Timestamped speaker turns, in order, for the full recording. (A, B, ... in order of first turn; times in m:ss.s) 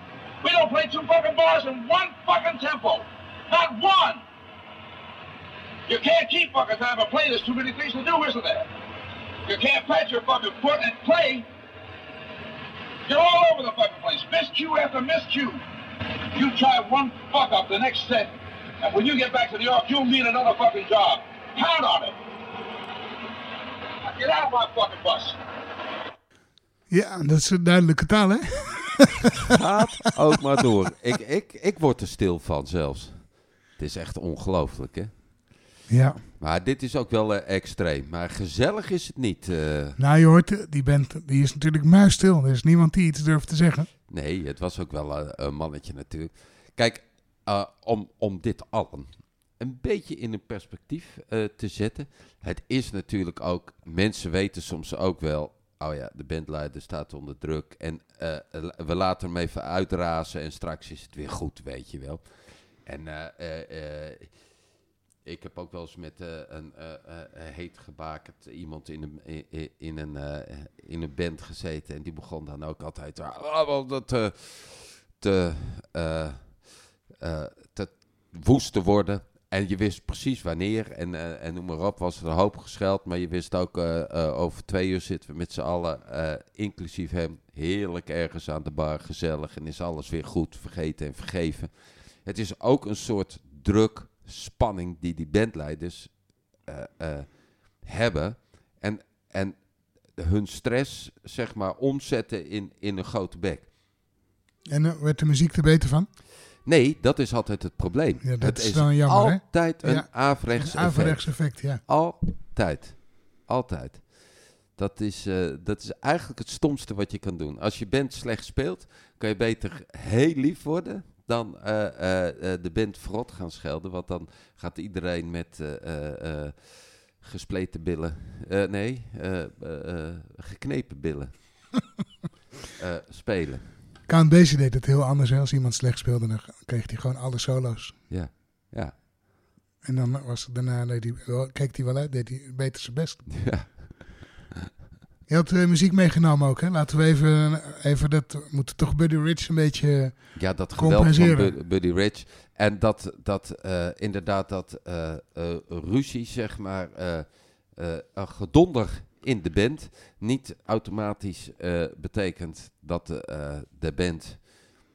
0:00.4-0:04.2 A
0:05.9-0:08.7 A
0:09.4-0:11.5 A
0:13.1-0:15.6 A
0:16.3-0:22.2 A
0:24.0-0:25.4 A
0:26.9-0:29.4 B
0:29.5-0:35.3 C
0:35.9-0:36.2 B
0:36.4-0:40.0 C
0:40.0-0:43.9 B
0:44.1-1:04.5 C
1:05.2-1:43.7 C
1:44.7-1:46.1 B
1:46.6-2:11.8 C
1:48.2-1:51.8 B
2:12.8-2:13.8 C
2:14.1-2:18.1 B
2:18.1-2:19.0 C
2:19.8-2:23.6 B
2:23.3-2:24.4 C
2:25.3-2:31.6 B
2:30.4-2:44.8 C